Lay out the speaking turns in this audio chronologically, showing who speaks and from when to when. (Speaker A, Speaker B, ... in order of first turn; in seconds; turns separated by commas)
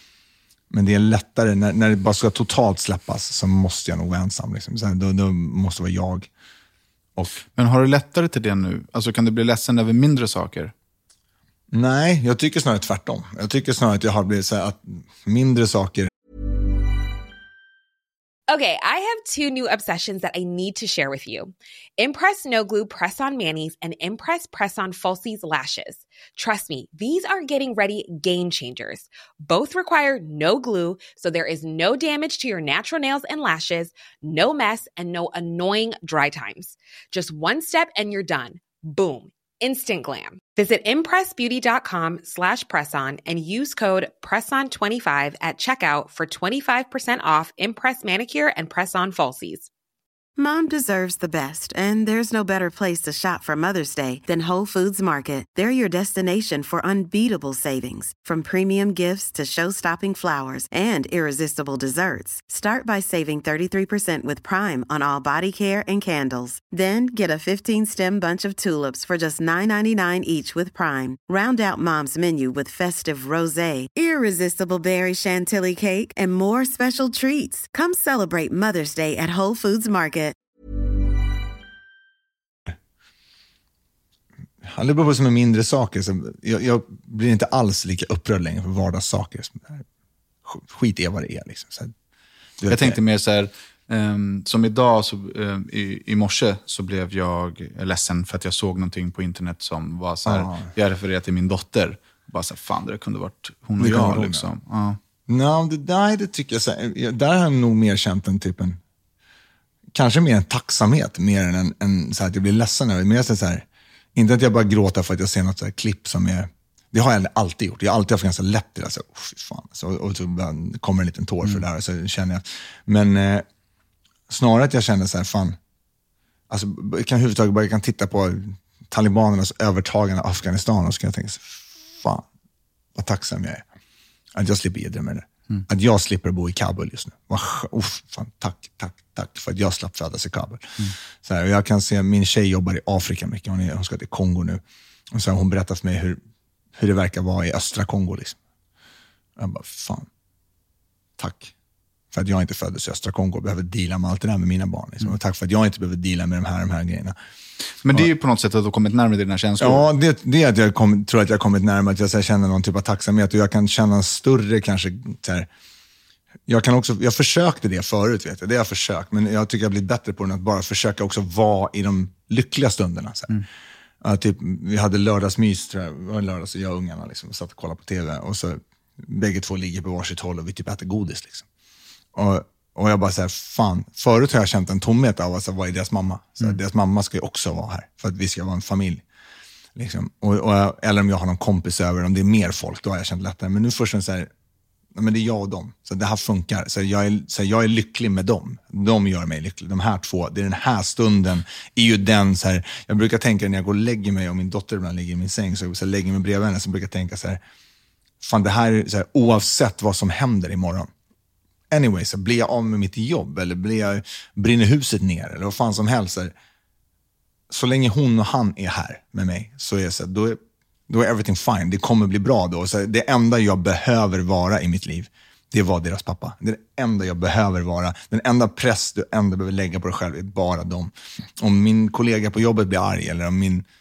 Speaker A: 0.7-6.3, Speaker A: 7.2-7.4, Speaker B: 7.5-10.7, Speaker A: 11.7-16.1, Speaker C: 18.5-49.7, Speaker D: 50.4-80.3, Speaker A: 84.7-89.8, Speaker A: 90.5-91.9, Speaker A: 92.6-93.0, Speaker B: 92.7-105.0, Speaker A: 100.3-100.7, Speaker A: 103.8-104.5, Speaker A: 105.3-108.8, Speaker A: 109.9-123.5, Speaker A: 124.3-125.6, Speaker A: 126.5-132.2, Speaker A: 133.0-133.7, Speaker A: 134.3-146.2, Speaker A: 146.8-148.4, Speaker A: 149.4-150.1, Speaker A: 151.2-151.5, Speaker A: 152.1-157.2, Speaker B: 157.8-159.9, Speaker A: 159.6-165.5, Speaker A: 166.5-173.4, Speaker A: 174.0-181.5, Speaker A: 182.1-189.0, Speaker A: 189.8-194.3, Speaker A: 194.9-207.4, Speaker A: 208.2-210.9, Speaker A: 211.7-216.3, Speaker A: 217.5-233.7